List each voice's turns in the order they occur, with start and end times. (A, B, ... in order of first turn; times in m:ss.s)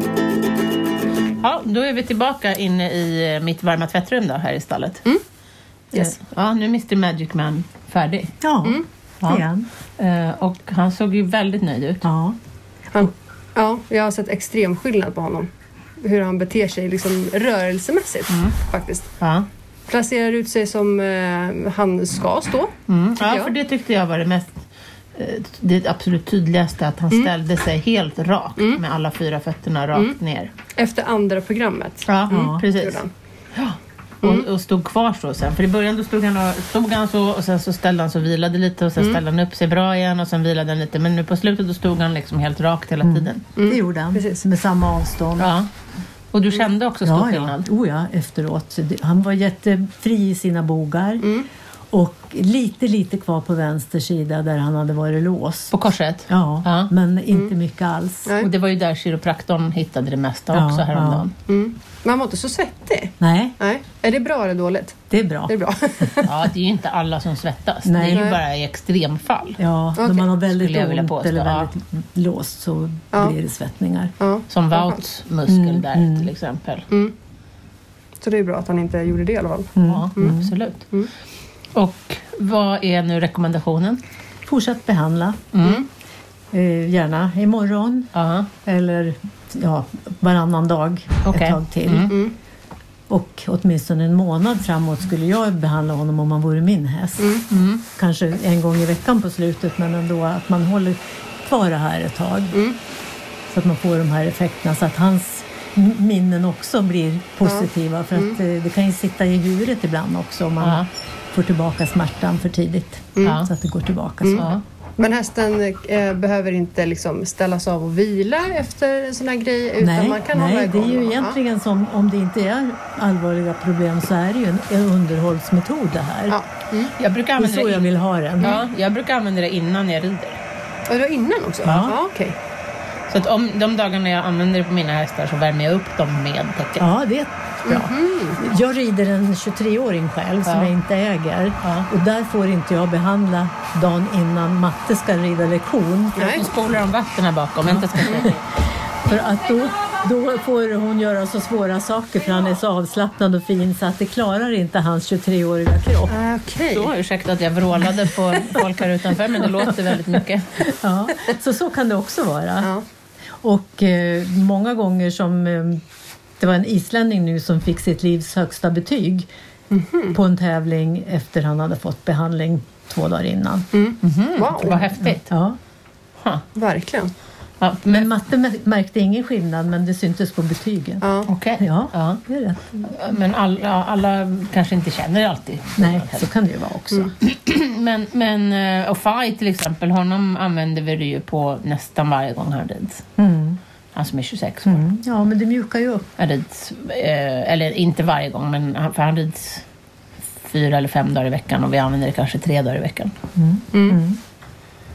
0:01.4-0:05.0 A
0:05.9-0:08.3 A
0:08.4-0:09.6 B
0:10.0-0:12.0 A
0:12.0-0:12.4 B
0:12.9-0:19.1 C
0:19.2-0:19.4 A
0:19.9-0:23.5 C
0:22.9-0:24.6 A
0:25.1-0:30.5 A
0:30.7-0:33.1 C
0:32.0-0:33.0 A
0:32.3-0:32.6 B
0:33.5-0:43.4 A
0:43.0-0:45.5 B
0:43.6-0:44.4 C
0:45.4-0:45.7 A
0:46.3-0:47.6 A
0:47.0-0:51.3 B
0:51.2-0:51.5 C
0:51.9-0:55.7 B
0:55.7-0:56.9 A
0:56.3-0:58.3 B
0:58.4-1:01.3 A
1:00.5-1:01.3 B
1:01.4-1:06.5 C
1:03.2-1:03.5 B
1:05.1-1:05.5 B
1:06.2-1:09.6 A
1:07.8-1:08.3 B
1:08.1-1:08.4 C
1:09.6-1:14.1 B
1:10.0-1:10.3 C
1:10.6-1:11.7 A
1:14.2-1:15.0 C
1:14.5-1:16.9 A
1:15.5-1:16.3 B
1:18.2-1:21.1 C
1:19.8-1:20.5 B
1:19.8-1:20.9 A
1:21.7-1:24.0 A
1:24.4-1:25.5 B
1:25.5-1:25.8 A
1:26.5-1:28.1 B
1:28.1-1:28.5 A
1:28.6-1:32.2 B
1:31.2-1:32.1 A
1:32.0-1:32.3 C
1:33.1-1:37.4 B
1:37.5-1:37.8 A
1:37.9-1:42.6 B
1:43.5-1:54.5 B
1:47.4-1:48.4 C
1:50.6-1:50.9 A
1:53.2-1:53.4 C
1:53.2-1:53.5 A
1:54.2-2:01.4 C
1:54.4-1:54.6 A
1:59.8-2:06.4 B
2:06.3-2:06.9 C
2:07.0-2:10.4 A
2:07.4-2:08.6 B
2:10.9-2:12.4 C
2:11.6-2:12.0 B
2:13.1-2:16.9 A
2:16.8-2:26.4 B
2:17.6-2:18.4 C
2:20.4-2:20.7 A
2:21.6-2:21.9 A
2:26.2-2:26.4 C
2:26.2-2:28.4 A
2:27.7-2:28.4 B
2:29.0-2:36.1 B
2:36.1-2:36.9 C
2:36.4-2:40.6 A
2:38.0-2:42.7 B
2:43.4-2:45.8 B
2:46.4-2:49.3 B
2:49.7-2:50.2 C
2:50.1-2:53.7 B
2:53.7-2:54.9 C
2:54.0-2:55.3 A
2:55.0-2:55.6 B
2:56.5-2:57.1 C
2:57.6-2:58.1 A
2:57.9-3:01.0 B
3:01.0-3:01.3 C
3:01.3-3:02.2 A
3:01.6-3:02.9 B
3:02.8-3:06.3 A
3:05.8-3:07.1 B
3:07.2-3:13.0 A
3:13.2-3:13.6 B
3:13.9-3:14.8 A
3:14.6-3:16.1 B
3:16.2-3:19.6 A
3:20.4-3:23.1 A
3:23.4-3:24.2 B
3:23.7-3:24.0 C